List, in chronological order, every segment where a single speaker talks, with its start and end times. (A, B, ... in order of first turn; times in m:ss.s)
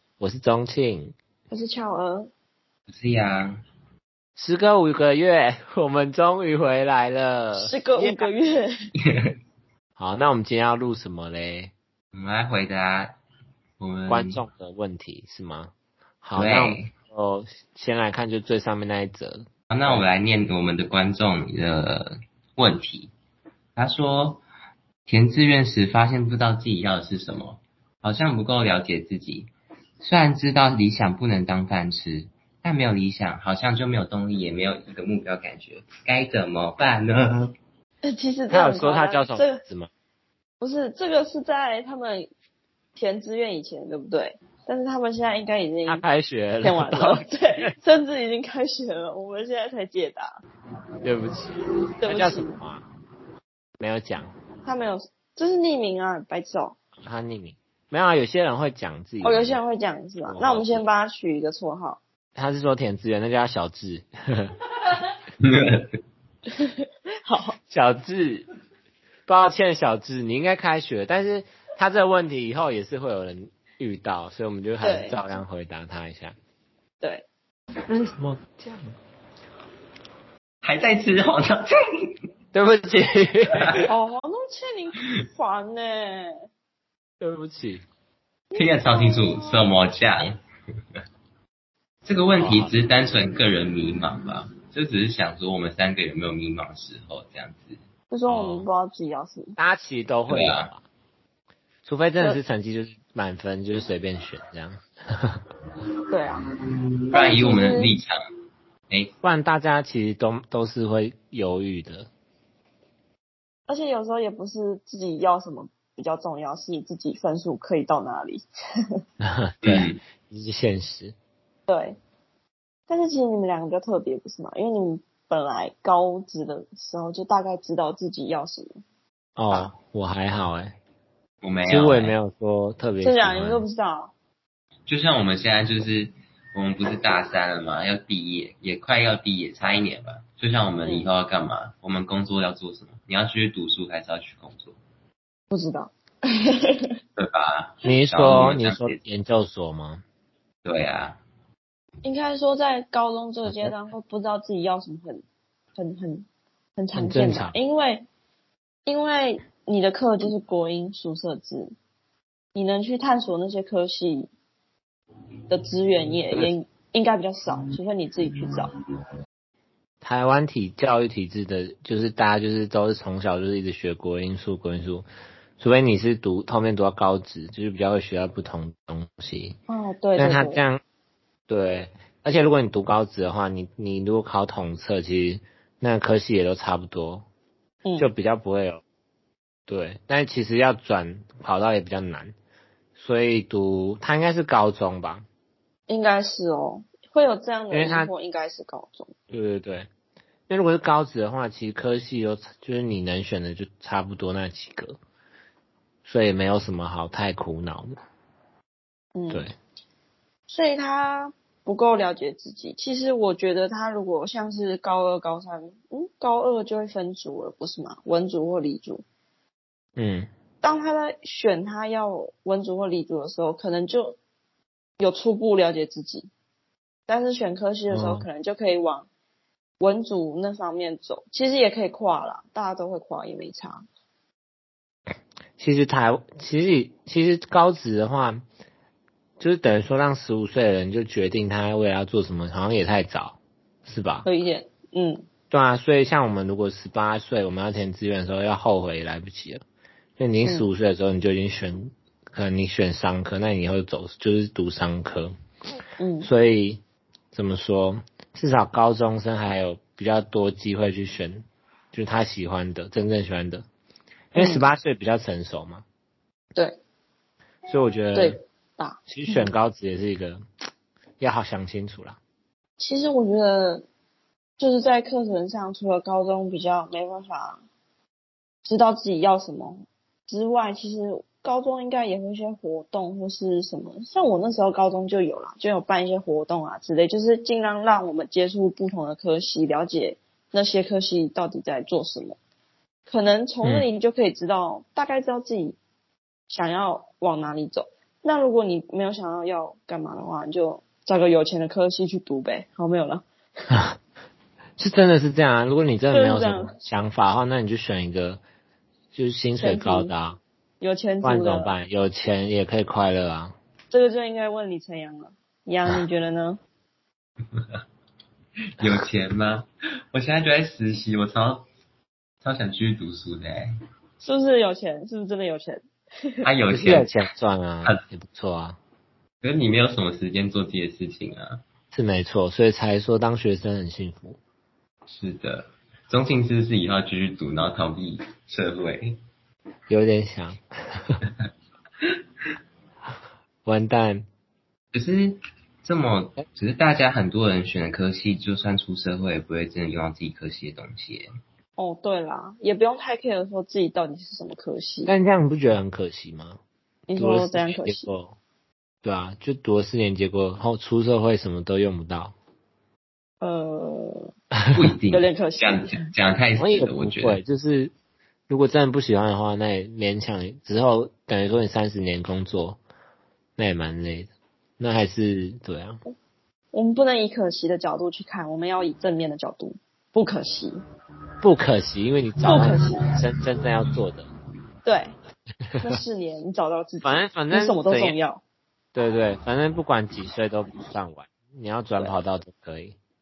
0:00.2-0:01.1 A
0:01.5-0:02.3 B
0:02.9-0:03.6 C
0:04.4-0:08.3 A
0:07.6-0:08.7 B
0:10.0-0:11.7 A
0:12.1-0:13.2 C
0:13.8-0:14.4 C
0:14.1-0:20.1 A
0:16.3-0:16.9 C
0:19.7-0:23.1 C
0:23.8-0:24.4 C
0:25.1-0:37.5 C
0:38.0-0:39.6 B
0:38.5-0:39.9 A
0:40.6-0:42.3 B
0:42.9-0:46.0 B
0:45.8-0:47.7 A
0:46.6-0:50.4 B
0:51.0-0:52.8 A
0:52.0-0:52.6 B
0:53.8-0:54.3 A
0:54.6-0:56.8 B
0:57.0-0:59.6 A
0:59.2-1:02.0 B
1:00.3-1:00.8 A
1:02.4-1:04.6 A
1:05.4-1:05.9 C
1:06.6-1:07.6 B
1:07.7-1:08.4 A
1:09.3-1:16.3 A
1:14.8-1:15.2 B
1:17.0-1:17.2 B
1:17.9-1:18.9 A
1:20.6-1:22.1 C
1:22.5-1:23.9 A
1:23.9-1:26.3 B
1:27.2-1:27.8 A
1:28.5-1:29.7 B
1:28.5-1:30.4 C
1:32.0-1:37.8 C
1:32.4-1:32.7 A
1:38.1-1:39.6 B
1:38.3-1:38.7 A
1:39.6-1:40.8 A
1:40.3-1:40.7 C
1:41.8-1:45.4 A
1:46.1-1:46.4 B
1:47.1-1:48.2 C
1:47.1-1:47.9 B
1:49.2-1:52.1 A
1:53.7-1:58.4 B
1:59.2-2:01.1 A
1:59.6-2:00.0 C
2:01.7-2:02.0 B
2:02.9-2:08.8 B
2:09.4-2:10.8 A
2:11.4-2:12.2 C
2:11.6-2:13.7 A
2:13.0-2:14.1 B
2:14.9-2:24.8 C
2:20.8-2:21.1 B
2:25.5-2:26.9 B
2:27.2-2:29.0 C
2:27.8-2:30.0 A
2:30.6-2:31.2 C
2:32.0-2:35.2 B
2:33.4-2:33.7 A
2:35.8-2:38.0 B
2:36.9-2:37.6 A
2:38.8-2:41.7 B
2:42.5-2:44.3 B
2:45.5-2:48.7 B
2:50.0-2:55.1 A
2:55.6-2:59.6 A
2:59.7-3:00.6 B
3:00.2-3:00.8 A
3:01.5-3:07.2 A
3:07.8-3:08.1 B
3:08.0-3:08.8 A
3:09.7-3:12.3 A
3:13.0-3:15.2 A
3:15.9-3:19.1 B
3:17.7-3:18.1 A
3:19.3-3:19.9 A
3:20.5-3:25.0 A
3:26.0-3:27.9 A
3:29.1-3:29.5 B
3:30.5-3:39.0 B
3:40.0-3:40.3 A
3:40.6-3:44.2 B
3:45.0-3:46.3 B
3:47.1-3:49.1 B
3:47.9-3:48.3 A
3:49.8-3:53.8 B
3:55.6-3:58.4 A
3:59.4-4:04.3 A
4:04.2-4:05.2 B
4:05.5-4:09.6 A
4:10.2-4:15.3 A
4:10.4-4:10.7 B
4:16.0-4:16.3 B
4:16.2-4:16.8 A
4:17.3-4:23.6 A
4:24.3-4:25.8 A
4:24.3-4:24.7 B
4:27.7-4:28.4 A
4:28.1-4:29.5 B
4:29.1-4:30.4 A
4:31.2-4:32.2 A
4:32.8-4:33.8 B
4:34.6-4:37.6 B
4:38.6-4:52.4 B
4:53.1-4:55.8 B
4:56.5-5:03.7 B
5:04.8-5:08.4 A
5:06.1-5:06.7 B
5:09.1-5:10.4 A
5:09.6-5:10.1 B
5:10.8-5:11.7 B
5:11.2-5:13.5 A
5:13.9-5:16.6 B
5:18.8-5:21.6 C
5:22.4-5:23.7 C
5:24.2-5:26.4 B
5:26.4-5:27.1 C
5:26.7-5:28.8 A
5:29.4-5:31.6 C
5:31.9-5:34.4 A
5:35.1-5:39.2 C
5:39.9-5:41.2 A
5:43.6-5:44.2 A
5:44.9-5:51.3 C
5:51.8-5:55.1 B
5:55.1-5:56.6 A
5:57.1-5:58.1 B
5:57.2-5:58.3 A
5:59.0-6:02.3 A
6:03.4-6:04.3 B
6:04.7-6:07.4 C
6:05.1-6:06.1 B
6:06.6-6:07.9 A
6:08.5-6:12.8 A
6:13.6-6:16.0 A
6:16.7-6:20.8 B
6:21.4-6:24.3 A
6:22.4-6:23.1 B
6:24.8-6:25.2 B
6:25.8-6:28.4 B
6:27.0-6:28.2 A
6:28.9-6:33.0 A